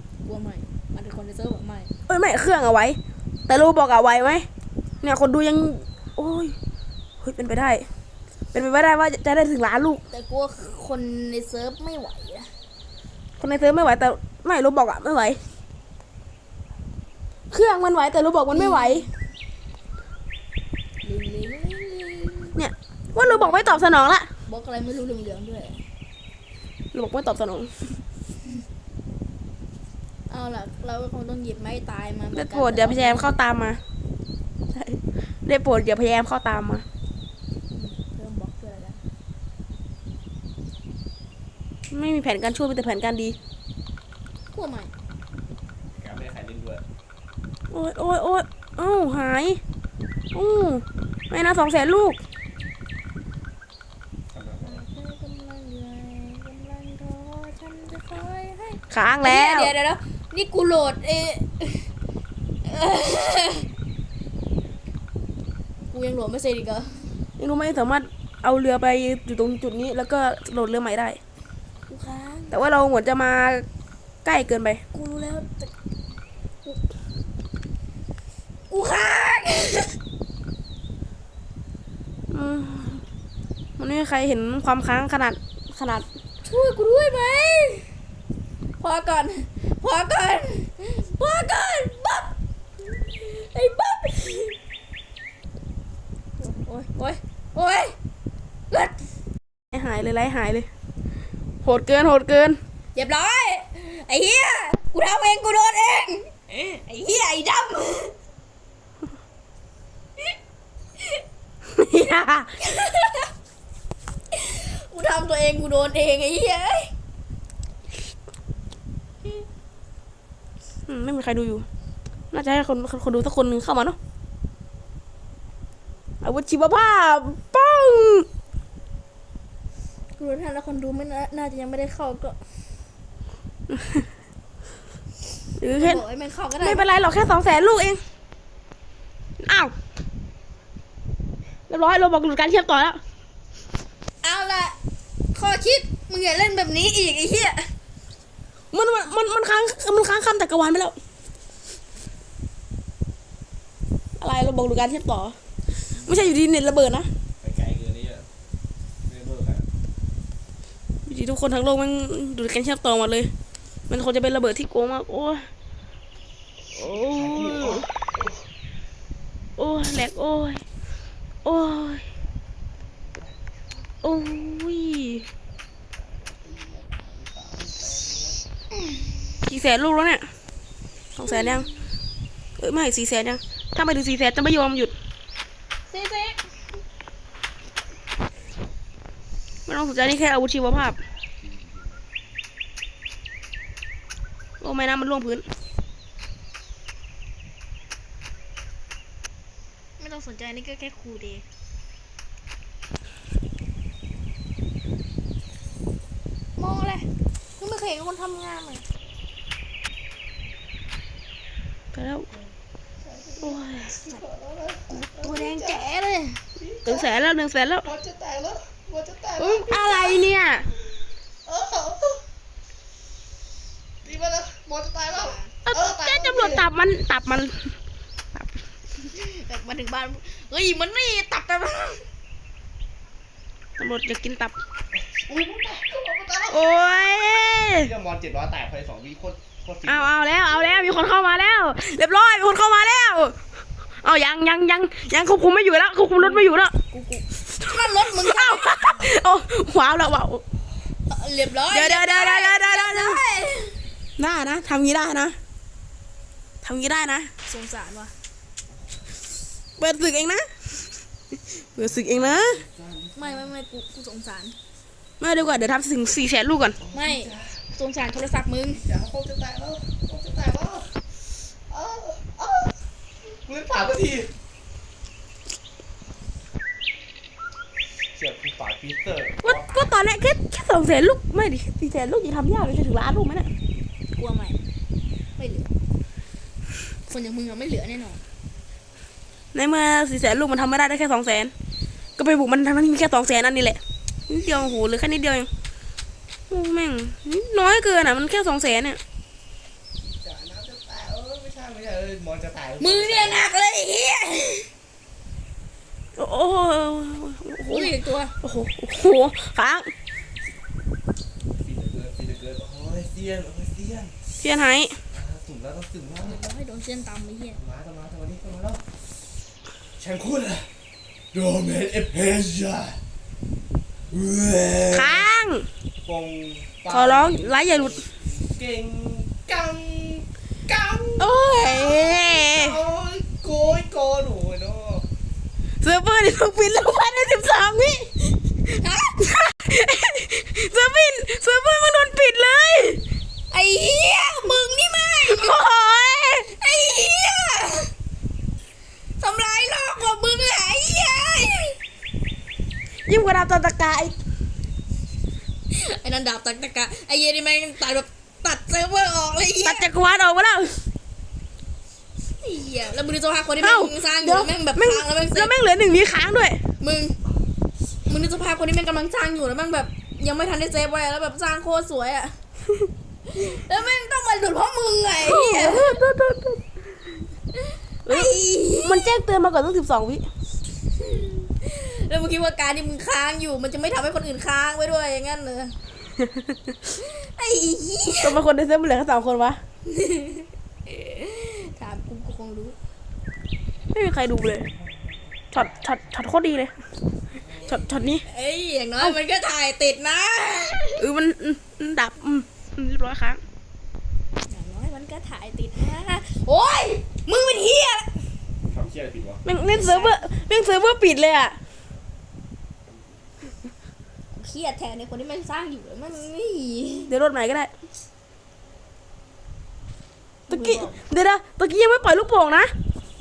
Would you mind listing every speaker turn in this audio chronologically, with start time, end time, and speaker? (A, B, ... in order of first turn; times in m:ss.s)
0:00.2-0:01.9 A
0:02.1-0:04.5 B
0:05.0-0:06.5 B
0:07.2-0:07.9 B
0:08.5-0:10.0 B
0:10.1-0:12.5 A
0:13.4-0:15.4 B
0:17.5-0:19.1 B
0:18.5-0:19.1 A
0:21.0-0:22.6 A
0:22.6-0:24.3 B
0:23.2-0:23.9 A
0:24.4-0:25.8 A
0:26.9-0:28.0 B
0:30.3-0:33.3 A
0:32.3-0:33.8 B
0:34.7-0:36.8 B
0:37.7-0:39.0 A
0:41.9-0:43.4 B
0:44.5-0:44.9 A
0:46.0-0:46.8 C
0:47.7-0:49.6 B
0:50.3-0:52.2 B
0:54.3-0:54.8 C
0:54.6-1:01.9 A
0:58.9-0:59.7 B
1:02.6-1:03.7 A
1:05.9-1:07.1 A
1:07.4-1:11.2 B
1:11.9-1:12.6 A
1:12.5-1:13.6 B
1:14.2-1:14.8 B
1:14.9-1:15.7 A
1:18.7-1:20.0 A
1:22.3-1:23.0 B
1:23.8-1:26.0 B
1:26.4-1:27.9 A
1:28.8-1:34.6 A
1:36.4-1:38.0 A
1:38.7-1:39.0 A
1:39.7-1:40.7 B
1:41.6-1:42.6 B
1:42.9-1:48.1 A
1:51.7-1:52.5 B
1:52.6-1:53.3 A
1:54.3-1:56.9 A
2:00.9-2:01.6 B
2:02.3-2:04.0 B
2:06.2-2:08.3 B
2:10.2-2:12.4 A
2:13.7-2:14.1 B
2:15.6-2:16.0 B
2:15.8-2:16.8 A
2:16.6-2:18.0 B
2:19.4-2:19.7 B
2:21.7-2:23.0 B
2:24.2-2:24.8 A
2:25.3-2:27.7 A
2:28.7-2:31.0 B
2:34.2-2:35.4 B
2:35.9-2:37.1 B
2:37.4-2:38.3 C
2:39.0-2:39.6 C
2:41.0-2:43.3 B
2:43.9-2:45.5 B
2:46.7-2:47.9 B
2:47.0-2:48.4 C
2:49.6-2:50.6 B
2:51.4-2:52.0 B
2:54.0-2:55.2 B
2:56.0-2:58.4 C
2:59.4-3:00.3 B
3:01.2-3:01.7 B
3:01.2-3:01.6 A
3:02.6-3:04.9 B
3:05.9-3:06.5 A
3:09.7-3:11.0 B
3:14.6-3:15.4 B
3:20.0-3:21.4 A
3:26.6-3:28.8 A
3:31.9-3:32.3 B
3:33.1-3:35.8 C
3:33.4-3:34.0 B
3:35.1-3:36.4 A
3:36.6-3:37.1 C
3:36.8-3:37.9 B
3:37.8-3:40.3 C
3:39.4-3:40.7 B
3:41.4-3:42.2 C
3:44.0-3:46.6 C
3:45.1-3:45.5 A
3:45.6-3:47.7 B
3:49.0-3:52.0 A
3:53.8-3:54.5 B
3:55.0-3:56.6 C
3:56.5-3:57.9 B
3:57.8-4:00.1 C
3:59.8-4:03.4 B
4:00.6-4:01.4 A
4:04.0-4:06.7 B
4:06.2-4:08.8 A
4:07.6-4:10.4 B
4:11.1-4:13.8 A
4:11.7-4:13.2 B
4:14.2-4:15.4 B
4:16.6-4:17.3 B
4:17.4-4:18.1 A
4:19.8-4:20.5 B
4:21.5-4:22.6 B
4:21.8-4:23.5 C
4:23.1-4:24.6 A
4:25.2-4:26.8 B
4:26.8-4:27.6 C
4:26.9-4:28.8 A
4:28.7-4:32.8 C
4:33.3-4:34.3 C
4:38.1-4:39.8 C
4:39.4-4:43.5 B
4:44.1-4:44.6 A
4:45.4-4:45.7 A
4:47.1-4:48.2 A
4:49.5-4:51.5 B
4:52.2-4:55.5 B
4:56.5-4:59.0 B
5:00.0-5:03.5 C
5:02.8-5:04.7 A
5:06.2-5:09.9 B
5:07.7-5:08.3 A
5:11.5-5:14.2 C
5:14.4-5:15.0 B
5:15.1-5:16.5 C
5:16.2-5:17.6 A
5:17.5-5:18.8 C
5:20.0-5:20.7 C
5:21.3-5:23.0 C
5:24.1-5:25.3 C
5:24.9-5:25.7 B
5:26.0-5:35.1 C
5:26.9-5:28.0 B
5:31.2-5:32.8 B
5:35.8-5:38.1 B
5:38.6-5:39.4 A
5:39.3-5:43.0 B
5:43.5-5:45.6 A
5:45.2-5:46.5 B
5:46.4-5:47.9 A
5:49.2-5:51.8 A
5:53.1-5:54.2 B
5:55.7-5:59.9 A
5:59.6-6:00.8 B
6:02.4-6:05.5 A
6:03.6-6:06.6 B
6:06.8-6:07.2 A
6:08.0-6:12.3 A
6:13.3-6:16.0 A
6:15.2-6:16.6 B
6:17.6-6:19.1 A
6:18.0-6:20.2 B
6:21.0-6:25.8 A
6:27.0-6:28.4 A
6:28.2-6:29.6 B
6:29.9-6:32.8 A
6:33.9-6:34.7 B
6:34.8-6:35.6 C
6:35.5-6:36.7 B
6:37.4-6:38.1 C
6:37.6-6:38.2 B
6:38.2-6:41.1 A
6:41.0-6:43.4 B
6:44.5-6:48.3 A
6:48.6-6:49.4 C
6:49.4-6:51.6 B
6:49.7-6:50.2 A
6:54.3-6:57.1 A
6:57.1-6:57.7 B
7:00.5-7:01.0 A
7:00.5-7:02.7 B